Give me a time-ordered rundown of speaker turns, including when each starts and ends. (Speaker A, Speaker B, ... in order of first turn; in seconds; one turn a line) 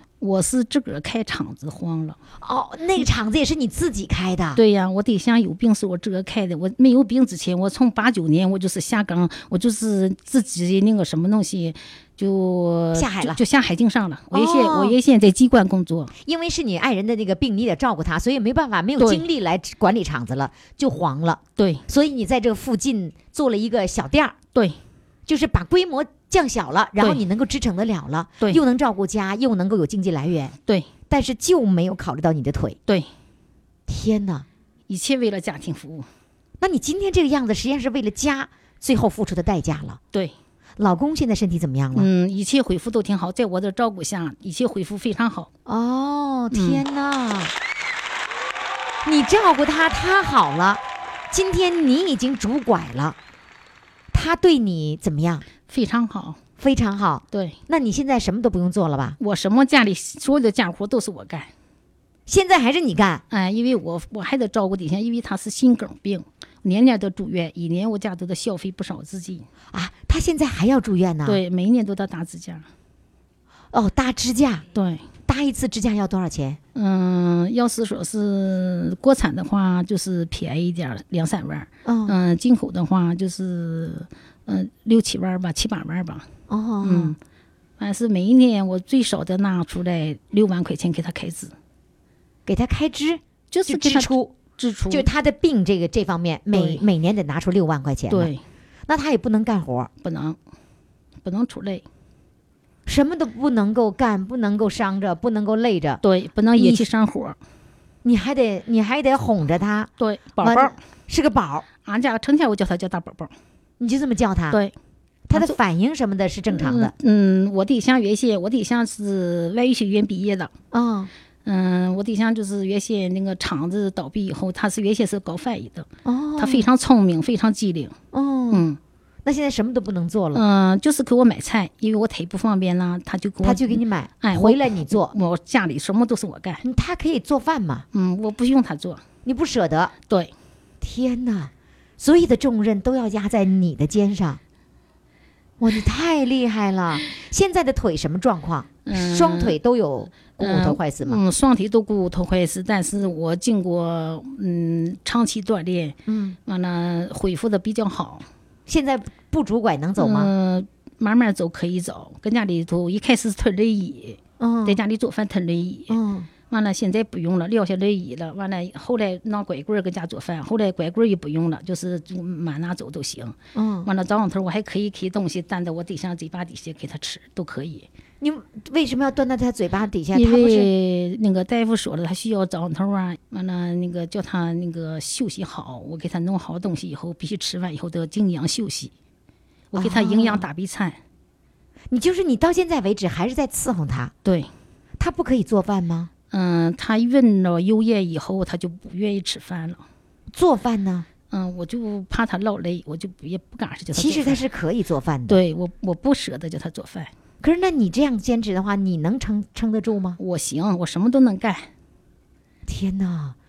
Speaker A: 0.2-2.2
Speaker B: 2.4-4.6
Speaker A: 4.6-16.1
Speaker B: 12.9-13.4
Speaker B: 14.3-14.9
Speaker B: 16.2-24.4
Speaker A: 19.0-19.2
Speaker A: 21.6-21.8
Speaker B: 25.3-30.5
Speaker B: 31.1-32.8
Speaker B: 33.9-34.5
Speaker A: 34.9-36.1
Speaker B: 36.6-40.0
Speaker B: 40.8-42.1
Speaker A: 42.0-45.5
Speaker B: 45.7-47.5
Speaker A: 46.5-46.8
Speaker B: 49.0-53.2
Speaker B: 54.1-55.5
Speaker A: 55.7-56.4
Speaker B: 56.6-59.2
Speaker A: 59.2-61.5
Speaker B: 62.3-63.2
Speaker A: 63.3-69.5
Speaker B: 69.7-71.4
Speaker A: 71.3-72.7
Speaker B: 73.7-74.6
Speaker A: 74.7-75.0
Speaker B: 75.3-76.6
Speaker A: 76.8-86.2
Speaker B: 81.8-82.2
Speaker B: 86.5-87.2
Speaker A: 86.8-87.2
Speaker A: 87.8-91.5
Speaker B: 92.5-94.3
Speaker A: 93.5-95.1
Speaker B: 94.9-98.3
Speaker A: 96.5-96.8
Speaker A: 98.1-98.4
Speaker B: 98.9-99.9
Speaker A: 100.0-100.4
Speaker A: 101.2-101.8
Speaker B: 102.9-106.0
Speaker A: 106.0-107.4
Speaker B: 106.6-106.9
Speaker B: 108.0-109.9
Speaker A: 110.0-110.8
Speaker B: 110.4-111.7
Speaker A: 111.8-113.3
Speaker B: 113.8-114.6
Speaker B: 115.3-116.9
Speaker A: 116.5-120.5
Speaker B: 120.7-121.1
Speaker A: 121.5-128.0
Speaker B: 126.0-126.7
Speaker B: 128.1-128.6
Speaker A: 128.5-128.8
Speaker B: 129.2-130.4
Speaker A: 130.3-136.6
Speaker B: 133.4-135.1
Speaker B: 136.6-137.8
Speaker A: 137.9-139.0
Speaker B: 139.2-139.9
Speaker B: 140.8-144.4
Speaker B: 145.6-151.2
Speaker A: 148.9-149.6
Speaker A: 150.4-158.2
Speaker B: 156.1-156.4
Speaker B: 158.7-160.3
Speaker A: 160.0-166.0
Speaker B: 164.4-164.8
Speaker B: 165.9-166.3
Speaker A: 166.5-177.9
Speaker B: 173.6-173.9
Speaker B: 178.2-180.7
Speaker A: 180.1-188.9
Speaker A: 189.7-191.0
Speaker B: 189.8-190.4
Speaker B: 191.9-194.1
Speaker B: 195.0-196.1
Speaker A: 196.3-199.8
Speaker B: 200.3-201.1
Speaker A: 201.3-204.4
Speaker B: 203.9-205.4
Speaker A: 205.3-207.1
Speaker B: 207.4-210.2
Speaker A: 210.2-211.7
Speaker B: 212.7-213.3